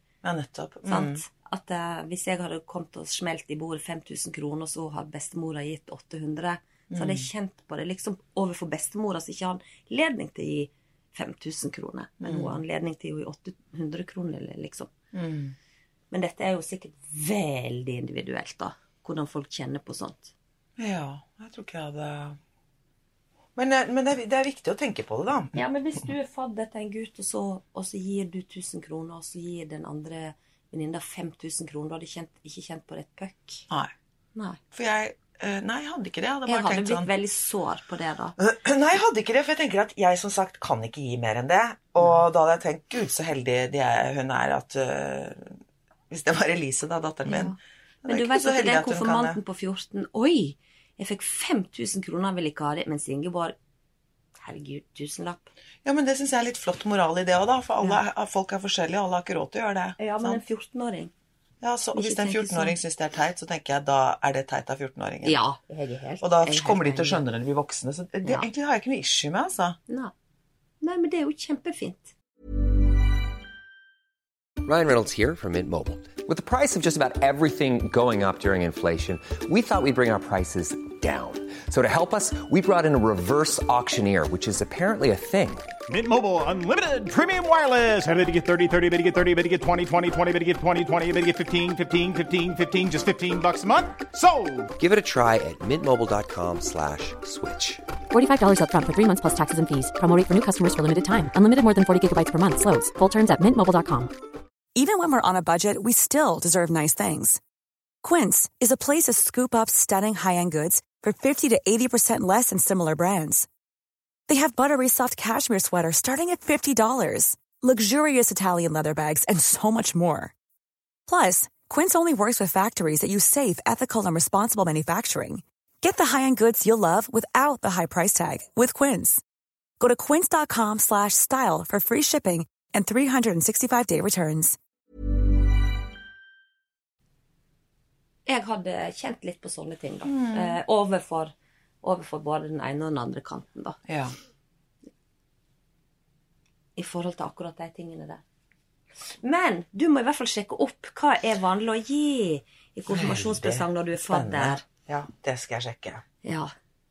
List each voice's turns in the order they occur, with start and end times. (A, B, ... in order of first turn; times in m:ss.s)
0:00.2-0:01.2 A
0:00.9-0:14.9 B
0:06.9-0:07.3 A
0:12.2-0:12.6 A
0:15.1-0:15.5 A
0:16.1-0:20.3 B
0:20.8-0:22.4 A
0:23.6-0:25.6 A
0:25.5-0:33.7 B
0:34.3-0:34.6 B
0:34.7-0:37.1 A
0:36.4-0:38.4 B
0:38.4-0:45.6 A
0:46.1-0:49.4 A
0:47.2-0:53.5 B
0:54.4-0:55.5 B
0:55.8-1:00.4 A
1:00.0-1:01.1 B
1:01.6-1:05.4 A
1:01.9-1:02.8 B
1:05.2-1:07.2 B
1:06.2-1:09.8 A
1:10.8-1:12.1 B
1:14.6-1:25.7 C
1:25.9-1:34.7 D
1:34.8-1:37.8 C
1:38.1-1:44.1 E
1:44.7-1:47.4 F
1:48.0-1:53.5 F
1:54.3-2:00.3 F
2:01.1-2:09.2 F
2:09.8-2:14.6 F
2:18.2-2:23.8 B
2:20.0-2:20.6 A
2:23.9-2:24.1 A
2:26.8-2:28.2 B
2:29.1-2:34.6 B
2:32.9-2:36.0 A
2:36.2-2:36.5 B